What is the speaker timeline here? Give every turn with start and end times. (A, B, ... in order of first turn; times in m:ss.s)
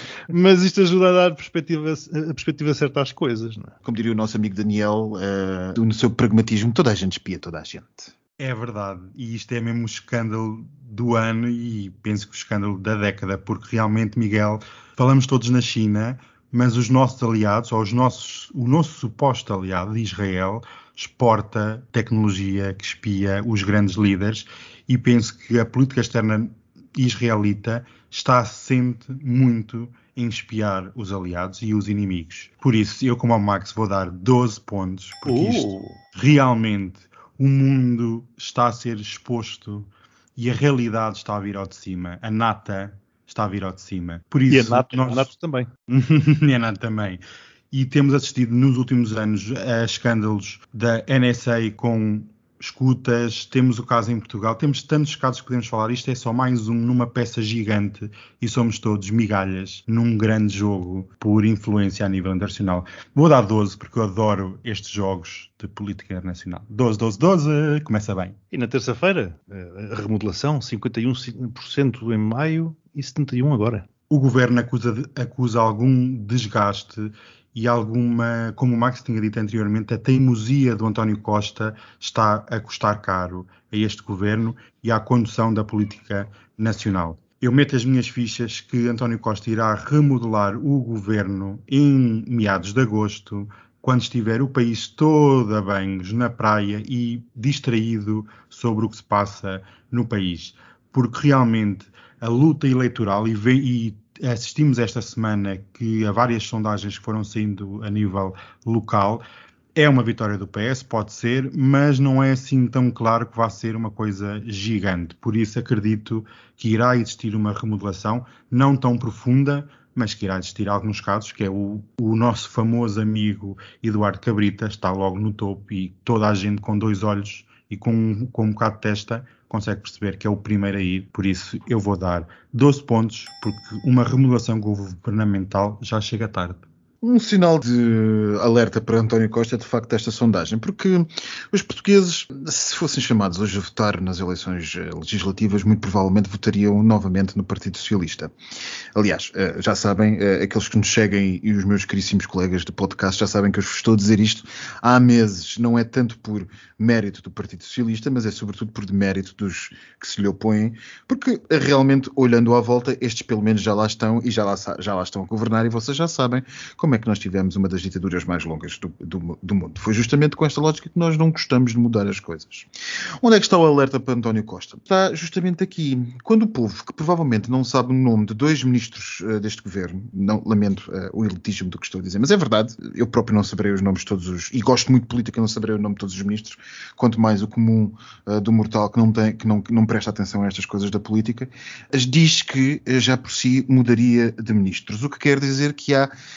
0:00.3-0:03.8 A
0:03.8-0:08.1 B
0:08.4-0:45.3 C
0:35.3-0:36.0 A
0:44.5-0:45.7 A
0:45.9-1:08.4 C
1:08.5-1:13.9 A
1:14.1-1:49.2 C
1:49.8-2:16.7 C
2:17.0-2:28.3 B
2:29.0-2:52.7 B
2:53.2-3:16.1 B